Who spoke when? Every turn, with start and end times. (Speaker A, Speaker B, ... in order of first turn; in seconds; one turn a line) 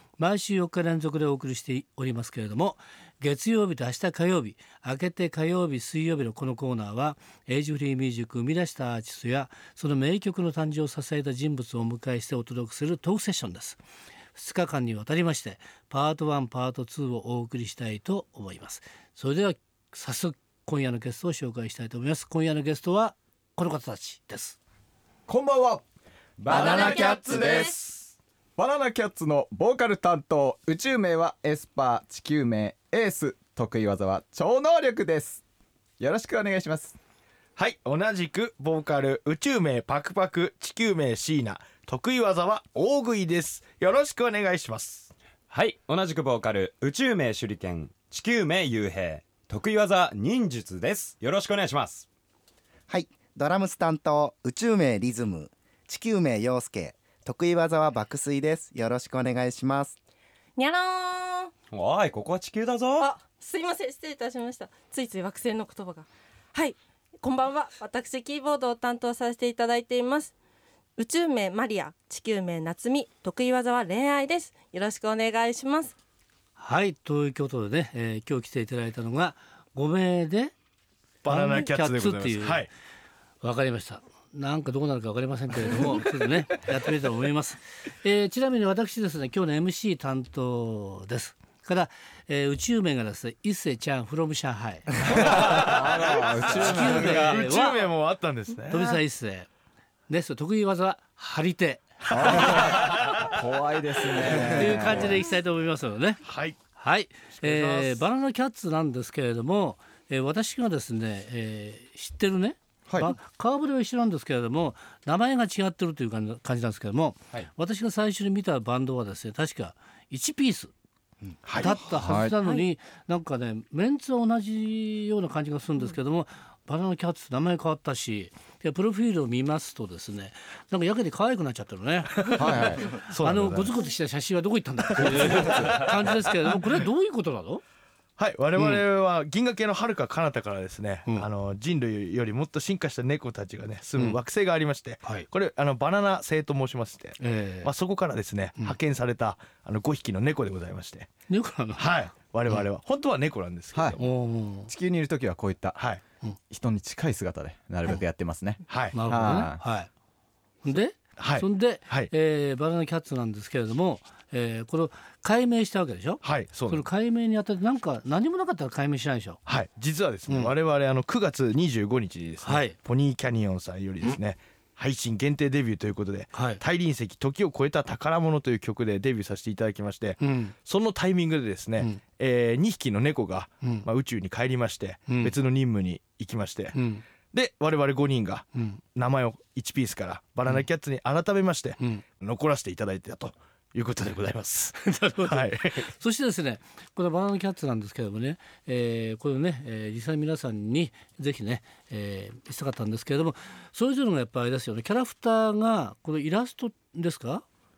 Speaker A: 0.2-13.8
Speaker A: 14.3-24.6
Speaker B: 25.3-25.8
Speaker B: 26.4-27.8
Speaker C: 26.5-28.1
Speaker D: 26.7-27.7
Speaker B: 28.6-35.4
Speaker B: 36.0-37.0
Speaker C: 37.6-45.1
Speaker E: 45.5-52.1
Speaker F: 52.9-60.0
Speaker D: 60.6-61.5
Speaker E: 61.7-63.1
Speaker D: 63.0-70.3
Speaker D: 71.0-75.9
Speaker A: 76.6-80.5
Speaker C: 81.2-82.7
Speaker A: 81.3-82.7
Speaker A: 83.4-95.4
Speaker B: 95.1-97.4
Speaker C: 95.3-99.0
Speaker A: 96.5-97.9
Speaker A: 98.7-99.5
Speaker A: 100.1-102.6
Speaker C: 102.1-103.3
Speaker B: 102.1-105.2
Speaker A: 104.2-106.2
Speaker C: 106.2-106.6
Speaker A: 106.8-120.7
Speaker C: 107.4-108.0
Speaker B: 112.9-113.1
Speaker C: 121.4-121.7
Speaker A: 121.6-137.6
Speaker B: 122.0-122.4
Speaker B: 132.4-132.9
Speaker C: 133.0-133.8
Speaker C: 138.2-151.1
Speaker A: 138.6-138.8
Speaker A: 147.2-147.7
Speaker A: 151.3-151.8
Speaker C: 151.8-154.1
Speaker B: 153.7-154.0
Speaker A: 154.0-154.7
Speaker B: 154.7-155.8
Speaker B: 156.5-159.6
Speaker C: 158.7-159.3
Speaker A: 158.9-159.9
Speaker A: 160.6-169.4
Speaker C: 161.2-162.1
Speaker C: 166.2-166.8
Speaker C: 169.5-186.8
Speaker A: 170.3-170.5
Speaker A: 172.4-172.8
Speaker A: 176.3-176.6
Speaker A: 180.2-180.6
Speaker A: 185.1-185.3
Speaker A: 186.7-187.0
Speaker C: 187.3-195.9
Speaker A: 188.6-188.8
Speaker A: 194.8-207.4